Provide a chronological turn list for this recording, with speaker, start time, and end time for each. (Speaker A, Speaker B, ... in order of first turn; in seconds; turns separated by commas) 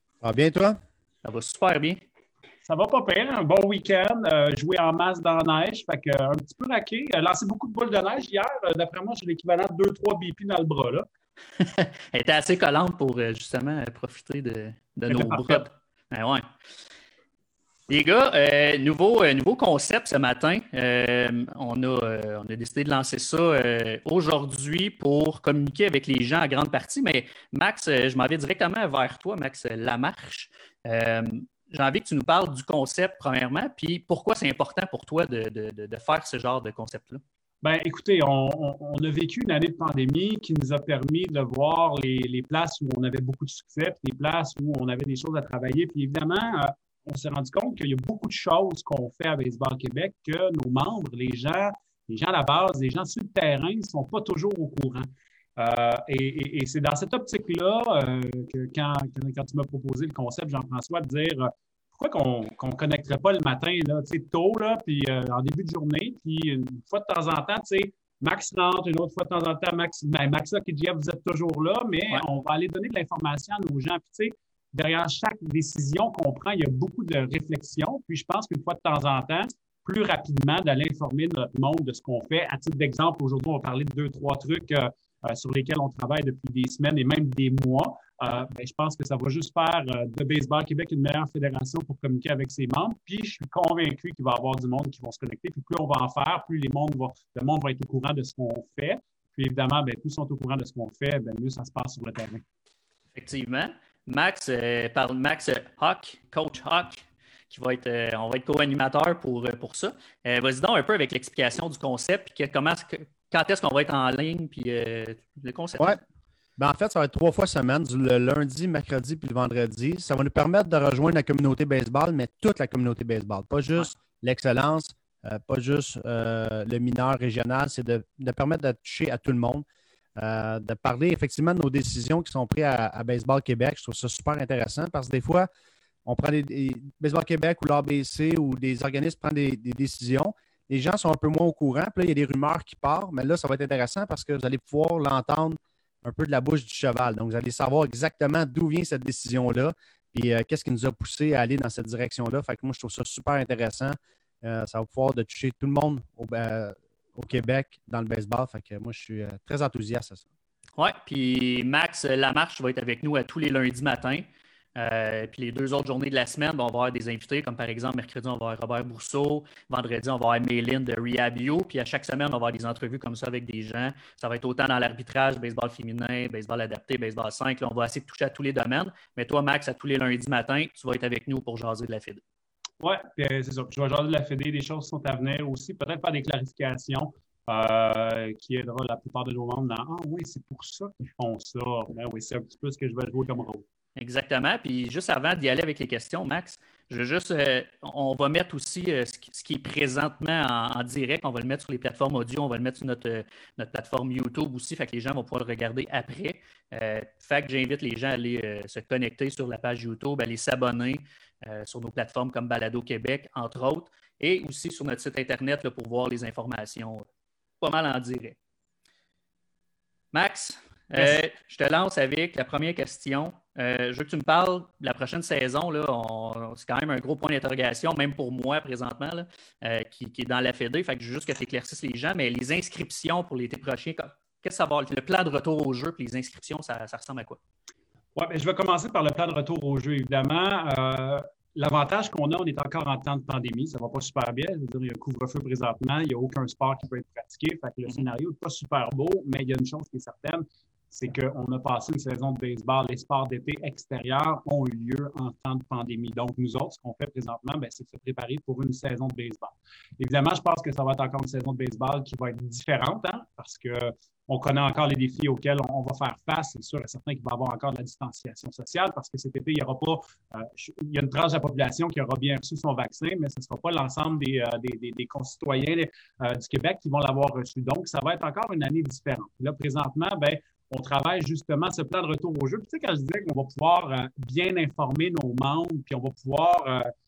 Speaker A: 0.2-0.8, Speaker B: 1.2-2.0, Speaker C: 2.6-11.0, Speaker B: 11.6-16.4, Speaker C: 15.1-15.6, Speaker B: 17.9-37.2, Speaker C: 37.6-102.4, Speaker B: 103.1-116.0, Speaker A: 116.6-129.6, Speaker A: 130.2-135.5, Speaker A: 136.1-160.2, Speaker B: 160.8-182.2, Speaker C: 182.8-193.6, Speaker B: 193.9-217.0, Speaker B: 217.6-218.4, Speaker B: 220.1-237.4, Speaker C: 238.2-286.9